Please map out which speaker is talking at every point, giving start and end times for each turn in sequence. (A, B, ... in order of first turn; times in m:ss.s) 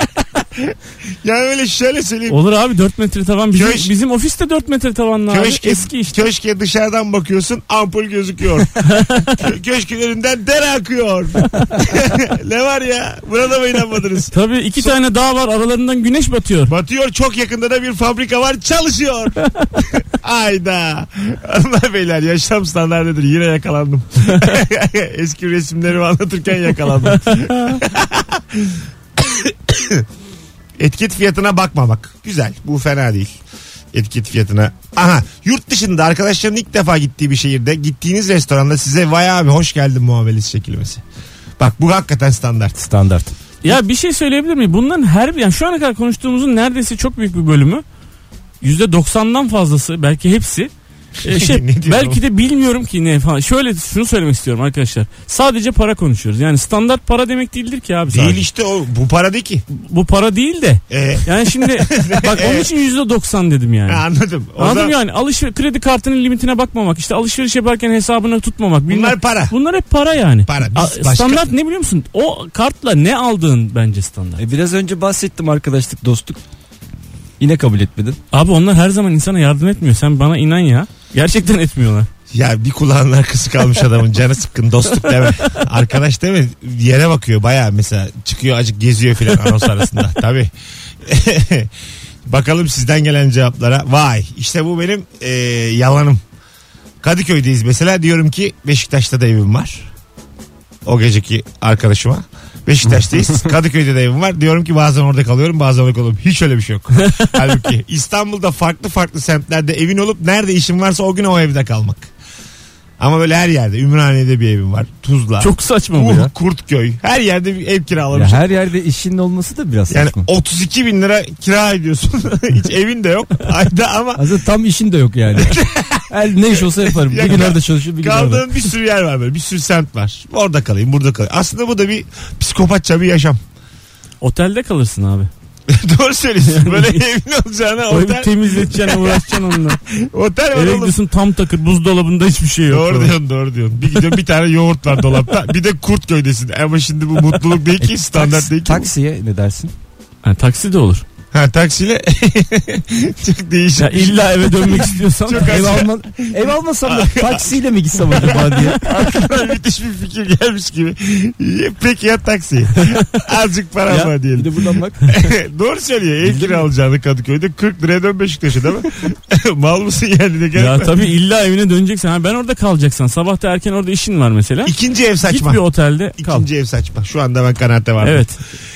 0:00.6-0:02.4 A
0:02.3-0:06.2 B
0:03.5-0:03.9 A
0:05.3-0:14.9 A
0:08.8-0:09.4 B
0:14.3-0:16.7 B
0:16.7-0:30.1 A
0:30.8-0:33.4 A
0:33.9-0:41.0 A
0:41.6-0:42.7 A
0:42.7-0:43.4 C
0:43.6-0:47.8 B
0:48.6-0:50.7 B
0:51.2-0:58.4 B
0:51.2-0:52.2 A
0:58.1-0:59.6 A
0:59.7-1:04.0 B
1:00.9-1:02.7 A
1:03.9-1:05.0 A
1:04.6-1:14.4 B
1:08.9-1:09.6 A
1:10.5-1:11.5 A
1:14.4-1:16.4 C
1:17.4-1:18.2 C
1:18.3-1:22.1 B
1:22.3-1:30.5 A
1:31.0-1:31.7 A
1:32.3-1:36.2 A
1:37.0-1:39.9 A
1:40.8-1:52.1 A
1:47.0-1:47.3 B
1:53.0-1:58.4 A
1:55.4-1:56.3 B
1:58.1-2:00.3 C
1:59.9-2:04.3 A
2:04.2-2:08.5 C
2:05.4-2:13.4 A
2:14.2-2:15.3 B
2:15.7-2:21.0 A
2:16.5-2:17.0 B
2:17.9-2:19.8 B
2:20.5-2:23.2 B
2:22.7-2:28.9 A
2:27.8-2:29.7 C
2:30.2-2:31.0 B
2:31.3-2:44.5 A
2:33.8-2:35.9 B
2:35.4-2:38.8 C
2:43.9-2:45.3 C
2:45.1-2:51.1 A
2:46.2-2:46.6 C
2:50.6-2:56.5 B
2:54.6-2:55.6 A
2:56.2-2:58.3 A
2:58.0-2:58.4 B